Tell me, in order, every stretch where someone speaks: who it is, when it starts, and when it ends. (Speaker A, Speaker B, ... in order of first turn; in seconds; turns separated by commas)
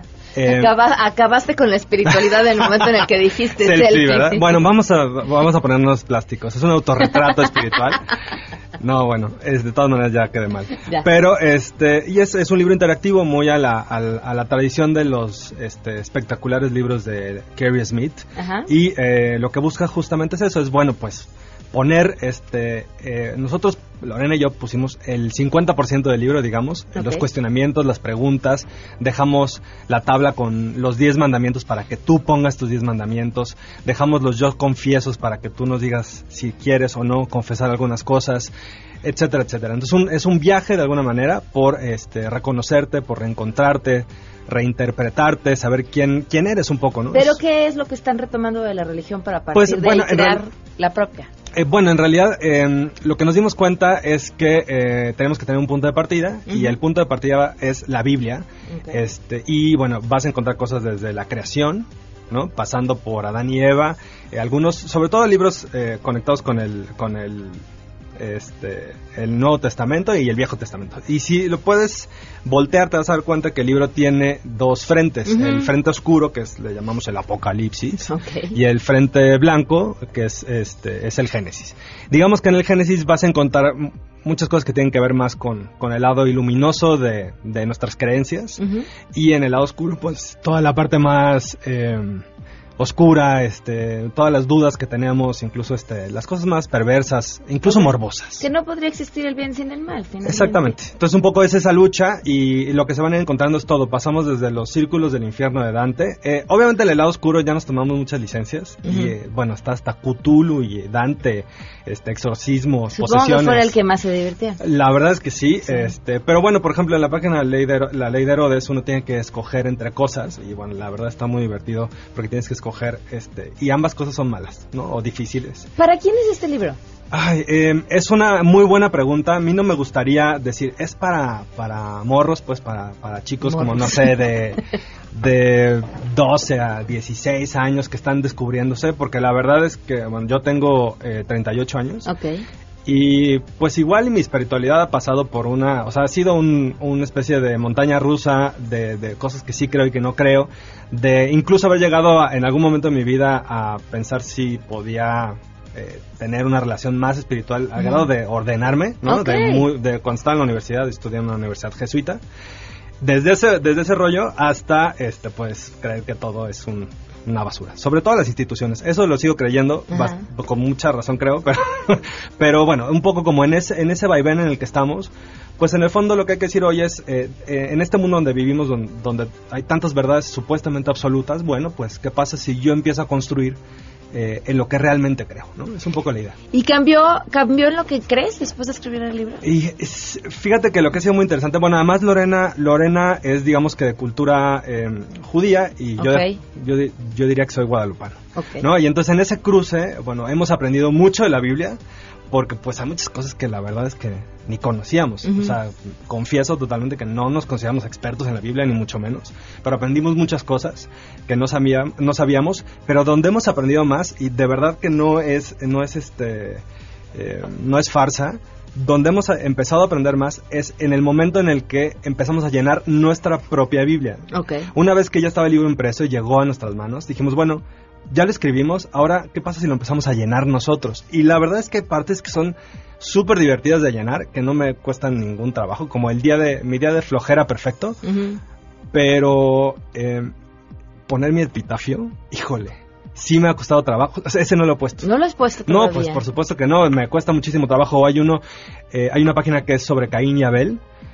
Speaker A: 0.3-0.8, Speaker B: 0.4-4.6, Speaker A: 2.1-2.9, Speaker A: 3.6-8.1, Speaker A: 8.8-38.5, Speaker B: 18.4-18.7, Speaker B: 26.9-27.3, Speaker A: 39.0-47.4, Speaker B: 47.1-51.3, Speaker A: 49.5-50.4, Speaker A: 51.5-67.6, Speaker B: 56.5-56.8, Speaker B: 58.7-59.0, Speaker A: 68.2-88.6, Speaker B: 75.3-75.7, Speaker B: 78.0-78.6, Speaker B: 88.6-88.9, Speaker A: 89.1-92.2, Speaker A: 92.8-98.5, Speaker B: 97.6-100.8, Speaker A: 100.2-113.8, Speaker B: 108.8-109.2, Speaker B: 112.9-114.6, Speaker A: 114.6-125.7, Speaker B: 125.8-126.8, Speaker A: 127.1-142.1, Speaker B: 133.4-134.1, Speaker B: 142.1-142.4, Speaker A: 142.9-162.2, Speaker B: 157.8-158.1, Speaker B: 159.1-159.7, Speaker A: 163.0-183.6, Speaker B: 169.9-170.2, Speaker A: 184.1-186.4, Speaker B: 186.5-189.5, Speaker A: 189.4-201.8, Speaker B: 196.0-196.4, Speaker B: 198.3-198.7, Speaker A: 202.3-238.0, Speaker B: 205.3-205.6, Speaker B: 224.3-224.7, Speaker B: 238.0-238.4, Speaker A: 238.9-240.3, Speaker A: 241.1-245.1, Speaker B: 245.0-246.2, Speaker A: 245.7-250.8